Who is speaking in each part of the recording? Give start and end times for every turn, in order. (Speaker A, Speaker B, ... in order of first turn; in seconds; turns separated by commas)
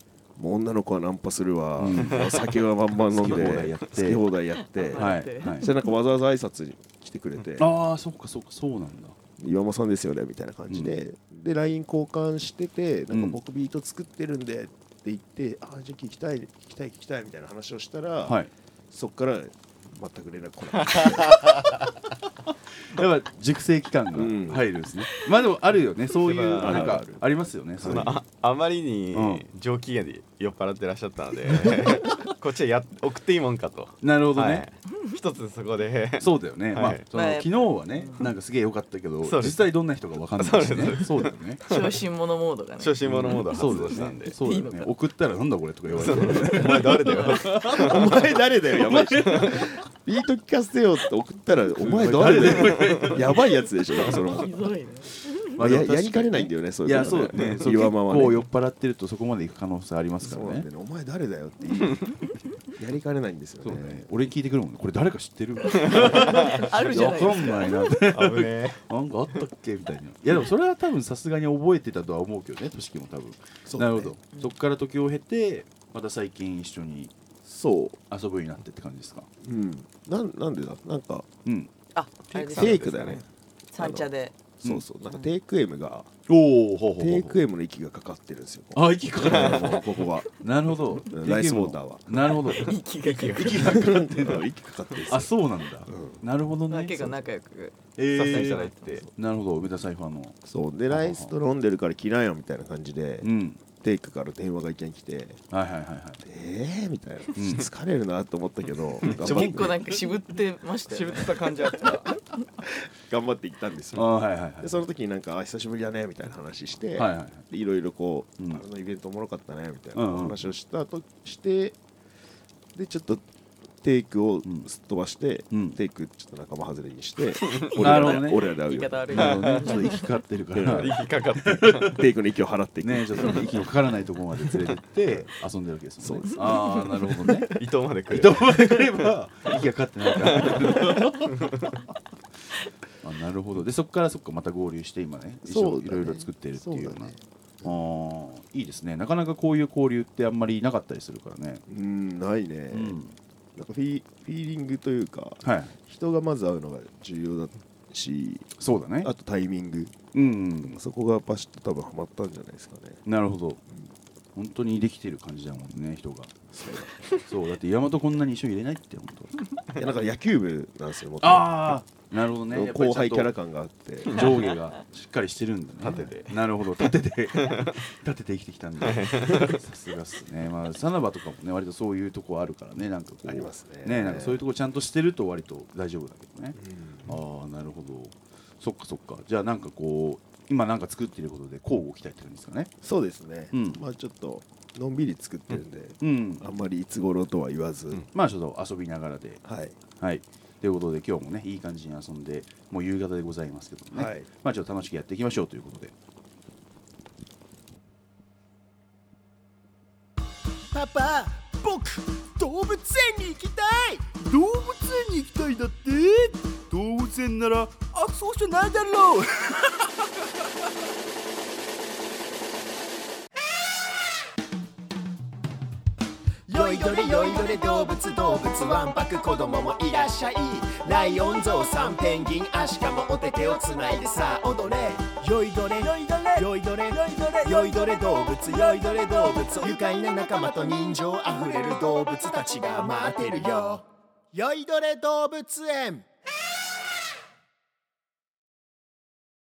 Speaker A: 0.3-7.7, Speaker B: 1.8-2.3, Speaker C: 2.0-2.5, Speaker B: 3.0-4.3, Speaker D: 4.6-5.8, Speaker B: 4.9-5.7, Speaker B: 7.6-9.1, Speaker A: 9.4-18.4, Speaker B: 10.7-10.9, Speaker B: 13.1-13.4, Speaker B: 18.2-18.5, Speaker A: 18.9-21.5, Speaker C: 20.8-21.6, Speaker B: 22.9-28.2, Speaker A: 24.1-24.6, Speaker C: 26.2-27.0, Speaker A: 26.6-27.3, Speaker A: 27.8-28.1, Speaker C: 27.8-37.0, Speaker B: 29.1-29.4, Speaker B: 34.0-34.6, Speaker B: 36.2-41.6, Speaker D: 37.1-38.3, Speaker C: 39.2-39.7, Speaker C: 40.3-42.0, Speaker D: 41.6-43.7, Speaker C: 42.8-44.4, Speaker B: 43.0-48.2, Speaker D: 44.3-44.9, Speaker C: 45.9-48.2, Speaker D: 46.4-47.4, Speaker A: 47.6-54.5, Speaker B: 48.8-49.7, Speaker C: 49.0-49.6, Speaker B: 51.8-53.4, Speaker C: 52.6-53.1, Speaker D: 54.1-55.4, Speaker B: 55.5-60.7, Speaker A: 55.6-58.4, Speaker A: 60.2-62.1, Speaker A: 62.8-64.0, Speaker B: 63.6-77.1, Speaker D: 65.7-67.9, Speaker C: 65.9-66.7, Speaker C: 68.1-69.4, Speaker A: 73.6-74.2, Speaker A: 77.4-78.0, Speaker B: 78.1-79.3, Speaker A: 79.4-81.3, Speaker B: 81.4-81.7, Speaker D: 81.9-84.4, Speaker C: 82.3-83.2, Speaker A: 82.5-83.2, Speaker A: 83.8-84.1, Speaker A: 84.6-86.1, Speaker B: 86.3-87.4, Speaker A: 87.0-90.3, Speaker B: 88.7-92.8, Speaker C: 89.2-89.8, Speaker A: 91.1-92.0, Speaker D: 92.6-93.8, Speaker C: 93.0-93.6, Speaker B: 93.3-94.4, Speaker A: 93.5-95.3, Speaker B: 95.1-97.1, Speaker A: 95.8-96.2, Speaker D: 96.7-99.1, Speaker B: 98.0-100.4, Speaker C: 98.1-99.0, Speaker A: 100.4-105.4, Speaker B: 100.9-101.3, Speaker B: 103.2-103.6, Speaker B: 105.5-106.2, Speaker A: 106.2-109.9, Speaker B: 107.3-107.7, Speaker B: 109.0-109.8, Speaker C: 109.1-109.4, Speaker D: 109.2-111.8, Speaker C: 110.9-112.1, Speaker A: 112.9-121.8, Speaker B: 113.9-114.8, Speaker B: 117.0-117.4, Speaker B: 119.9-120.4, Speaker A: 122.7-123.2, Speaker A: 123.8-129.4, Speaker B: 125.5-125.8, Speaker D: 127.8-130.1, Speaker B: 127.8-128.6, Speaker B: 129.1-132.0, Speaker C: 129.1-129.7, Speaker A: 130.5-130.9, Speaker C: 130.7-132.0, Speaker A: 131.8-133.5, Speaker B: 132.8-137.5, Speaker A: 136.0-136.8, Speaker C: 137.5-139.1, Speaker B: 138.1-141.8, Speaker C: 140.2-141.7, Speaker B: 143.0-151.6, Speaker A: 145.4-147.7, Speaker A: 151.7-152.9, Speaker B: 152.7-153.2, Speaker A: 153.5-158.5, Speaker B: 155.4-155.7, Speaker B: 158.6-159.1, Speaker A: 159.0-159.9, Speaker B: 160.1-160.8, Speaker A: 160.6-163.0, Speaker B: 163.1-163.6, Speaker B: 164.3-166.4, Speaker A: 166.5-167.1, Speaker B: 167.2-169.3, Speaker A: 169.7-171.8, Speaker B: 171.2-173.3, Speaker A: 172.5-174.5, Speaker B: 174.1-192.7, Speaker C: 175.8-176.3, Speaker C: 177.3-177.8, Speaker C: 178.8-179.6, Speaker A: 183.2-184.4, Speaker A: 186.6-187.2, Speaker A: 192.8-198.0, Speaker B: 193.5-193.8, Speaker B: 196.0-196.5, Speaker B: 198.1-199.4, Speaker A: 199.4-199.8, Speaker B: 200.0-205.9, Speaker A: 203.9-204.3, Speaker E: 210.7-214.0, Speaker B: 214.1-219.9, Speaker E: 226.5-246.0